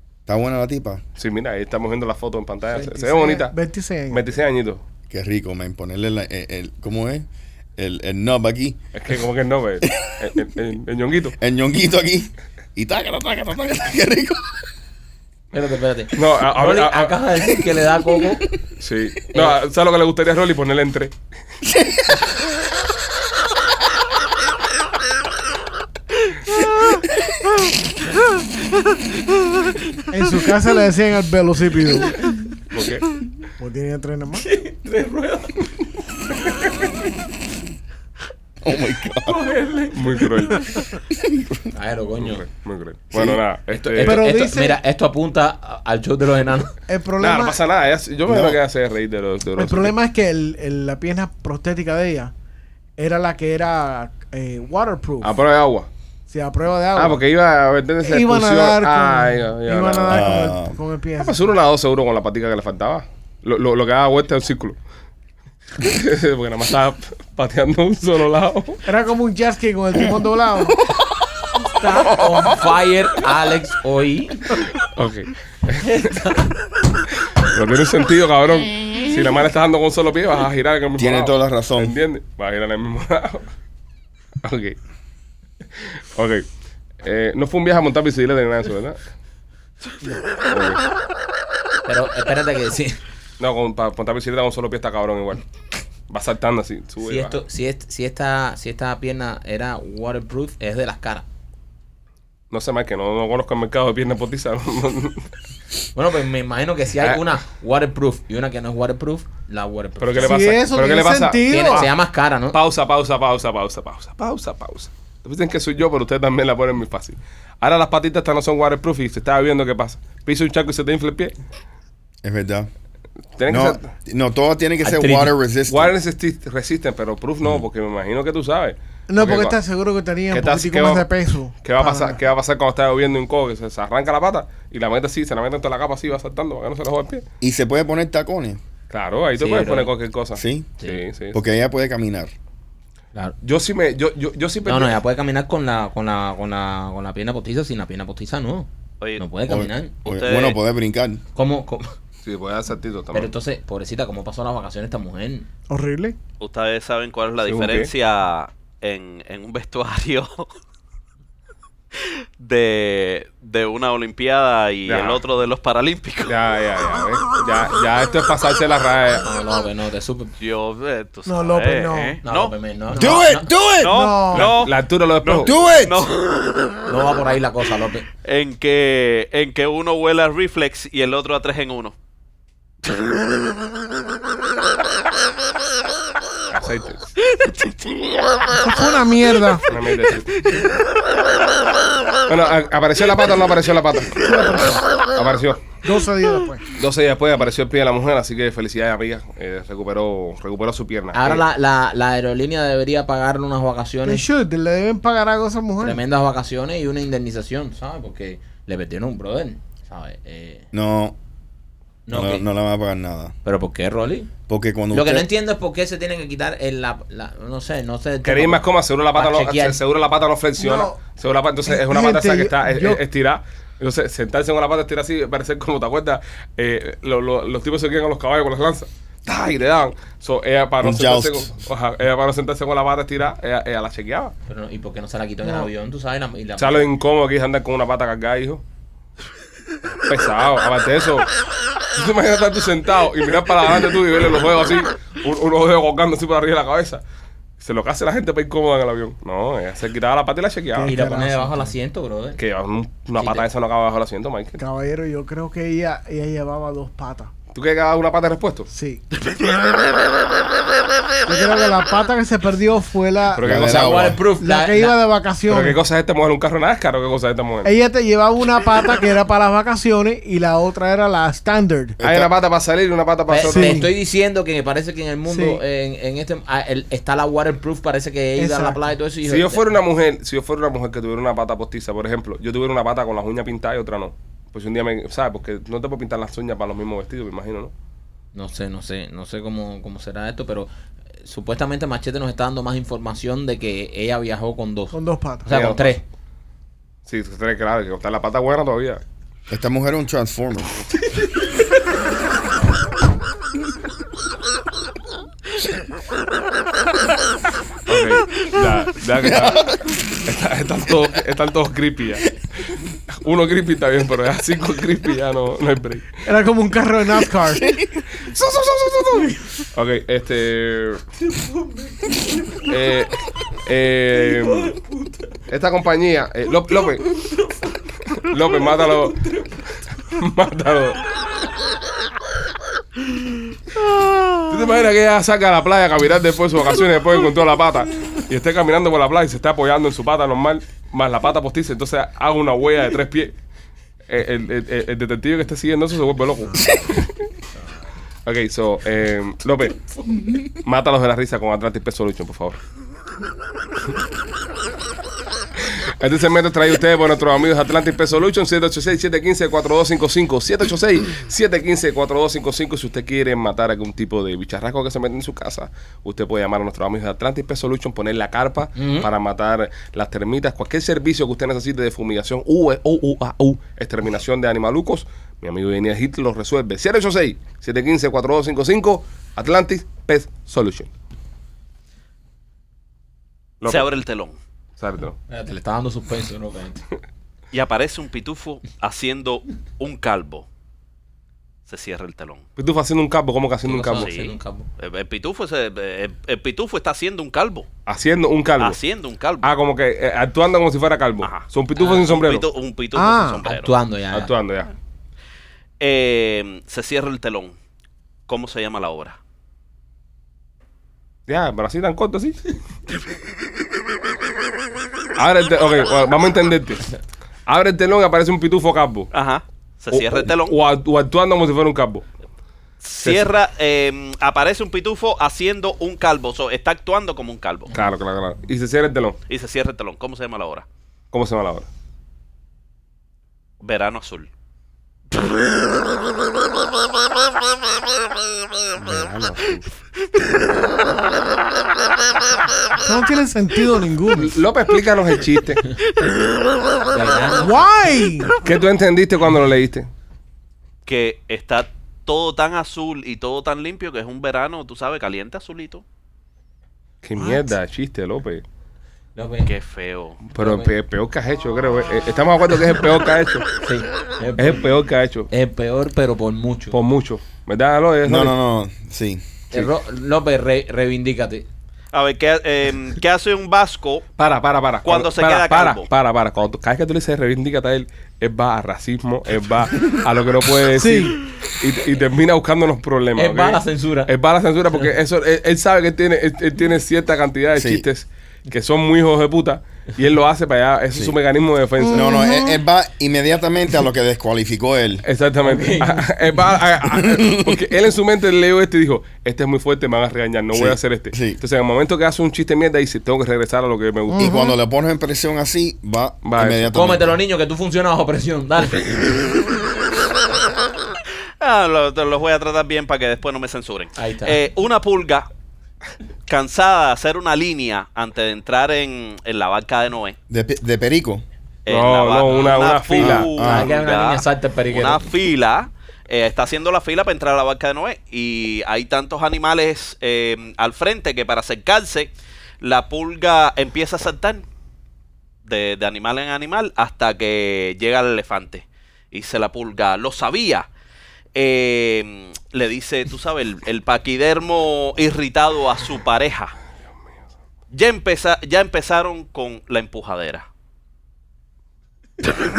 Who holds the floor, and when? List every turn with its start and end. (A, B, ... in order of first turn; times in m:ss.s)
0:00.3-0:01.0 A
0:01.2-0:03.5 B
0:02.7-0:04.2 C
0:04.1-0:04.8 B
0:05.1-0:08.8 A
0:08.9-0:11.4 B
0:09.8-0:10.4 A
0:11.4-0:14.5 A
0:15.5-0:18.4 D
0:16.1-0:17.2 B
0:18.8-0:21.1 B
0:21.6-0:22.3 A
0:30.1-0:32.2 C
0:32.7-0:33.1 B
0:33.6-0:34.4 C
0:34.3-0:35.7 D
0:38.6-0:39.4 A
0:39.2-0:40.7 D
0:39.9-0:40.8 B
0:41.1-0:41.7 A
0:41.7-0:42.4 D
0:42.2-0:44.3 B
0:43.1-0:43.4 A
0:43.7-0:46.7 D
0:44.0-0:44.8 C
0:46.9-0:47.6 C
0:47.2-0:49.9 B
0:48.3-0:48.6 A
0:49.6-0:52.3 C
0:53.0-0:55.3 C
0:55.2-0:55.9 B
0:56.3-0:57.2 C
0:56.9-1:00.3 B
0:58.0-1:01.4 C
1:00.1-1:00.8 A
1:01.2-1:04.8 B
1:05.8-1:08.8 B
1:08.8-1:10.8 C
1:11.7-1:14.6 D
1:11.8-1:12.3 C
1:14.7-1:16.3 B
1:15.9-1:16.4 D
1:17.4-1:23.5 B
1:21.0-1:22.0 A
1:24.4-1:24.8 B
1:26.1-1:26.4 B
1:27.0-1:29.0 B
1:30.5-1:30.8 B
1:31.8-1:33.0 D
1:33.4-1:35.4 B
1:36.1-1:37.4 B
1:37.0-1:41.2 D
1:42.5-1:45.3 B
1:45.9-1:50.5 D
1:50.0-1:51.9 B
1:50.2-1:51.9 C
1:51.5-1:52.6 D
1:52.5-2:01.3 B
2:02.2-2:02.7 A
2:03.4-2:03.9 B
2:03.5-2:05.9 A
2:04.8-2:05.3 D
2:05.7-2:09.6 B
2:09.1-2:12.2 C
2:10.3-2:11.1 B
2:11.6-2:17.2 B
2:17.4-2:18.6 A
2:18.9-2:21.4 B
2:19.4-2:19.9 D
2:20.4-2:20.7 A
2:21.3-2:22.3 A
2:23.4-2:25.0 B
2:24.6-2:29.9 D
2:29.0-2:29.2 E
2:29.5-2:31.2 A
2:30.0-2:30.6 E
2:31.3-2:31.9 D
2:32.2-2:33.3 B
2:33.1-2:35.5 D
2:35.7-2:36.2 C
2:36.4-2:40.5 E
2:37.4-2:37.9 B
2:42.0-2:46.3 E
2:44.9-2:45.2 B
2:46.2-2:49.2 B
2:49.2-2:50.3 D
2:50.4-2:52.5 E
2:51.2-2:52.2 C
2:52.2-2:53.5 D
2:52.9-2:53.2 C
2:53.0-2:54.0 A
2:53.8-2:56.8 E
2:53.8-2:54.5 C
2:54.3-2:55.6 B
2:55.4-2:56.1 A
2:56.8-2:58.1 D
2:58.2-3:01.9 E
3:06.5-3:07.2 B
3:08.5-3:09.7 C
3:09.7-3:10.5 B
3:12.3-3:14.2 B
3:14.2-3:14.8 C
3:15.1-3:15.6 B
3:15.8-3:16.6 C
3:16.7-3:21.4 B
3:21.1-3:24.3 D
3:24.0-3:26.0 C
3:25.8-3:30.7 D
3:30.7-3:31.2 A
3:32.0-3:32.4 D
3:32.1-3:33.3 A
3:33.4-3:34.3 D
3:34.5-3:35.3 A
3:34.9-3:39.8 D
3:38.2-3:54.3 B
3:40.6-3:41.0 C
3:41.7-3:43.0 C
3:50.8-3:51.5 A
3:54.5-3:56.9 D
3:56.6-3:58.6 B
4:00.0-4:01.3 B
4:01.9-4:07.0 B
4:07.6-4:10.9 B
4:10.7-4:11.7 C
4:10.8-4:12.4 D
4:12.4-4:14.6 B
4:13.2-4:13.4 D
4:14.6-4:17.3 C
4:17.5-4:18.7 B
4:18.7-4:19.0 C
4:21.2-4:23.5 C
4:23.3-4:24.1 B
4:23.4-4:24.2 A
4:23.6-4:25.0 D
4:24.4-4:25.8 C
4:25.5-4:27.7 B
4:27.6-4:32.0 C
4:32.0-4:32.3 A
4:32.0-4:33.8 B
4:33.3-4:39.6 D
4:33.4-4:33.9 C
4:35.3-4:35.6 C
4:38.4-4:38.8 C
4:39.2-4:47.7 B
4:48.3-4:50.7 D
4:51.2-4:56.0 D
4:54.9-4:55.5 C
4:55.5-4:56.0 B
4:57.0-4:59.0 B
4:59.5-5:00.7 A
5:07.9-5:12.3 B
5:09.2-5:09.9 A
5:13.1-5:16.2 B
5:16.2-5:17.7 C
5:17.4-5:18.0 A
5:18.2-5:21.0 B
5:21.3-5:22.7 D
5:22.6-5:24.7 B
5:24.2-5:25.3 D
5:25.5-5:27.1 B
5:27.2-5:27.6 D
5:28.1-5:29.2 B
5:29.1-5:29.4 D
5:30.0-5:31.0 B
5:34.3-5:43.3 B
5:44.1-5:47.1 B
5:46.4-5:46.9 C
5:48.2-5:49.8 B
5:50.6-5:52.6 B
5:55.6-6:20.9 B
6:08.8-6:09.1 D
6:23.6-6:23.9 B
6:23.6-6:24.4 E
6:24.8-6:25.2 B
6:25.3-6:26.8 D
6:27.5-6:30.4 E
6:31.7-6:32.4 E
6:32.6-6:34.1 B
6:33.6-6:34.7 D
6:34.0-6:37.7 E
6:37.8-6:38.8 B
6:38.6-6:39.5 E
6:39.4-6:42.4 B
6:41.2-6:43.7 E
6:42.9-6:43.4 C
6:43.4-6:44.3 D
6:44.1-6:44.7 B
6:45.8-6:47.5 E
6:48.3-6:49.2 E
6:51.3-6:52.4 B
6:55.2-6:56.9 B
6:57.5-6:59.1 B
6:59.1-7:00.6 E
6:59.9-7:02.0 B
7:02.8-7:07.7 E
7:03.0-7:03.3 B
7:07.7-7:09.2 B
7:09.3-7:10.6 E
7:11.1-7:11.7 B
7:13.6-7:14.3 E
7:18.8-7:19.6 B
7:22.8-7:24.3 C
7:24.1-7:25.6 B
7:26.9-7:27.6 D
7:27.4-7:28.3 C
7:28.4-7:29.9 B
7:30.8-7:35.8 E
7:37.0-7:38.4 B
7:37.2-7:37.5 C
7:39.2-7:39.5 D
7:39.4-7:40.2 E
7:40.3-7:43.5 B
7:40.4-7:40.7 D
7:43.6-7:44.6 D
7:44.4-7:45.3 B
7:45.3-7:46.8 D
7:46.7-7:48.3 B
7:48.0-7:49.2 A
7:49.5-7:51.4 D
7:51.9-7:54.0 E
7:54.2-8:12.2 B
7:54.8-7:55.9 E
8:00.8-8:01.2 C
8:03.2-8:04.1 D
8:07.5-8:07.8 A
8:11.8-8:12.6 C
8:11.9-8:15.0 A
8:15.0-8:24.4 B
8:15.4-8:16.1 D
8:16.9-8:17.6 A
8:20.5-8:21.4 A
8:24.1-8:24.6 C
8:24.1-8:27.1 A
8:26.2-8:26.7 B
8:26.7-8:29.4 D
8:31.4-8:35.3 E
8:33.9-8:34.4 D
8:36.3-8:40.2 E
8:40.3-8:41.2 A
8:41.6-8:54.4 E
8:41.7-8:43.3 B
8:43.0-8:43.7 A
8:43.4-8:45.1 D
8:55.4-9:00.7 E
9:01.3-9:06.5 E
9:07.7-9:10.4 E